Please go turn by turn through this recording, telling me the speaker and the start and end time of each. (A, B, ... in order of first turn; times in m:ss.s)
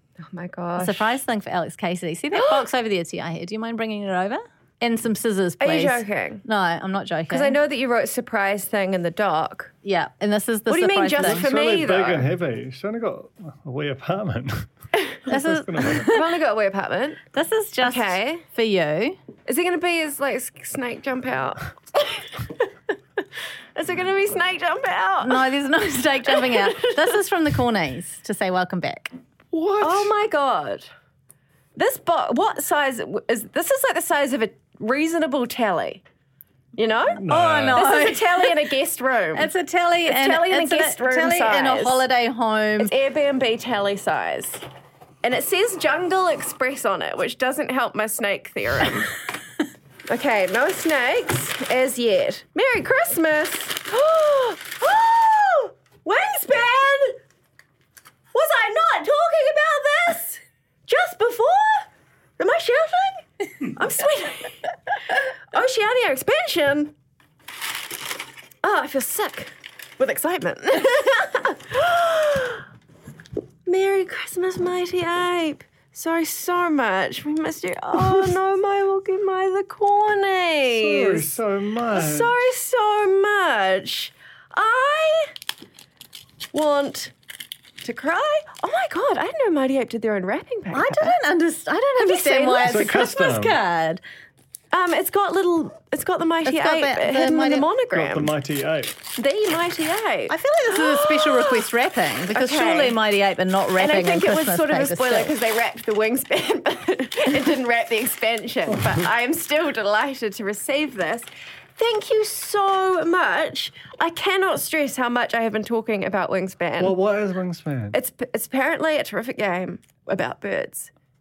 0:00.2-0:01.2 A
0:00.8-0:07.6 B
0:02.3-0:02.6 A
0:05.6-0:06.4 A
0:07.3-0:09.7 A
0:09.8-0:11.5 B
0:10.7-0:12.3 A
0:11.2-0:14.7 C
0:15.3-0:16.1 C
0:15.3-0:16.2 B
0:16.1-0:17.2 A
0:17.3-0:19.2 B
0:17.8-0:18.4 A
0:19.5-0:22.2 A
0:23.8-0:25.5 A
0:25.2-0:29.1 B
0:26.4-0:26.9 A
0:29.5-0:30.1 C
0:29.8-0:30.9 A
0:31.8-0:36.0 A
0:36.8-0:39.5 A
0:37.2-0:37.8 C
0:37.3-0:38.5 B
0:39.4-0:42.9 B
0:40.1-0:42.0 A
0:42.8-0:44.6 A
0:45.2-0:49.2 A
0:50.1-0:57.2 A
0:58.3-1:04.7 A
1:05.5-1:06.9 A
1:08.6-1:12.6 A
1:13.7-1:21.3 A
1:20.7-1:22.3 C
1:21.9-1:25.3 A
1:26.5-1:27.1 A
1:27.8-1:31.2 A
1:30.7-1:34.0 B
1:32.0-1:32.9 A
1:32.6-1:33.6 C
1:34.7-1:38.4 A
1:36.4-1:37.7 B
1:37.9-1:39.0 C
1:39.2-1:41.7 A
1:40.3-1:45.3 B
1:42.4-1:43.0 A
1:43.8-1:57.0 A
1:56.8-1:58.0 C
1:57.9-2:00.9 A